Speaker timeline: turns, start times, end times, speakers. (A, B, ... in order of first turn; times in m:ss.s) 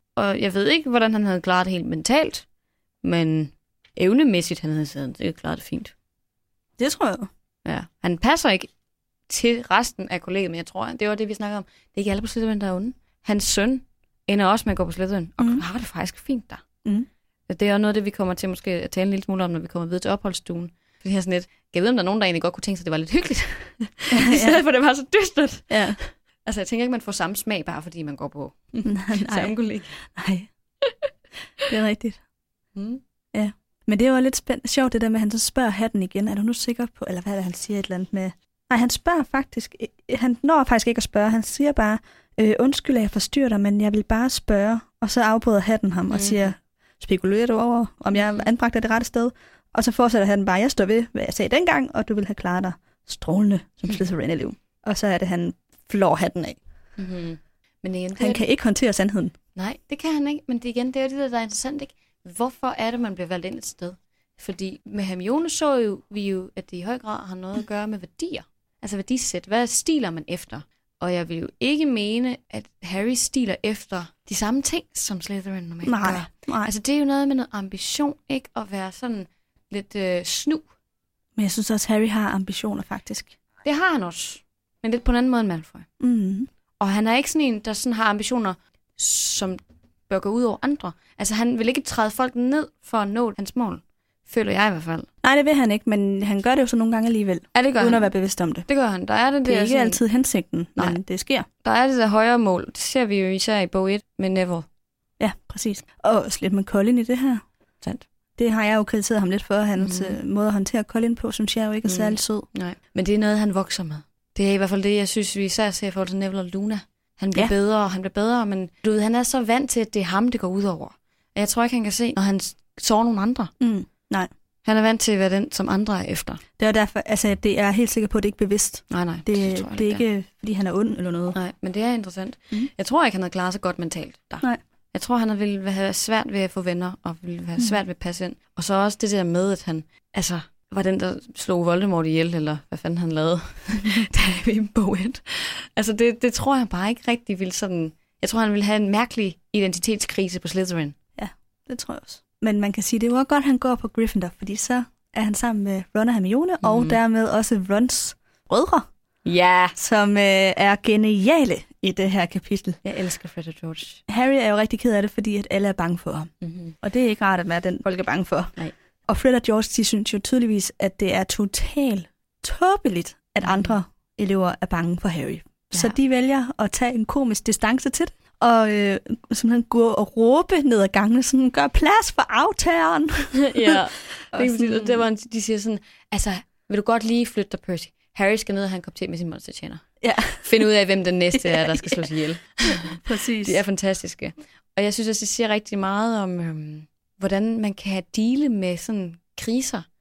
0:00.1-0:02.4 A
0:03.0-0:05.9 A
0:06.8-0:07.3 B
0:07.6-0:08.7 A
0:09.3-0:16.6 A
0:17.5-0:30.0 A
0:24.1-0:24.6 B
0:25.7-0:26.0 B
0:28.8-0:30.5 B
0:30.8-0:31.1 A
0:31.7-0:32.2 B
0:32.7-0:33.0 A
0:33.3-0:56.6 B
0:46.1-0:46.5 A
0:48.1-0:48.4 A
0:57.0-0:58.4 A
0:58.2-0:59.3 B
0:59.6-1:20.6 A
1:15.8-1:16.7 B
1:21.4-1:23.3 B
1:23.6-1:25.8 A
1:26.0-1:26.5 B
1:26.8-1:35.1 A
1:35.2-1:38.6 B
1:37.5-1:38.1 A
1:38.6-1:40.0 A
1:39.4-1:41.4 B
1:41.6-1:44.7 A
1:45.2-1:47.4 B
1:48.4-1:52.5 B
1:49.8-1:50.2 A
1:51.8-2:03.5 A
2:03.6-2:04.3 B
2:04.6-2:06.4 A
2:06.6-2:11.4 B
2:08.9-2:10.0 A
2:11.3-2:31.0 A
2:31.2-2:38.9 B
2:36.6-2:37.0 A
2:39.2-2:39.8 A
2:39.8-2:42.8 B
2:42.8-2:44.0 A
2:44.1-2:46.3 B
2:46.4-2:46.7 A
2:46.8-2:48.5 B
2:49.1-3:05.0 B
2:53.4-2:53.8 A
3:03.4-3:09.8 A
3:10.0-3:10.6 B
3:10.4-3:19.8 A
3:11.3-3:12.0 B
3:12.7-3:13.6 B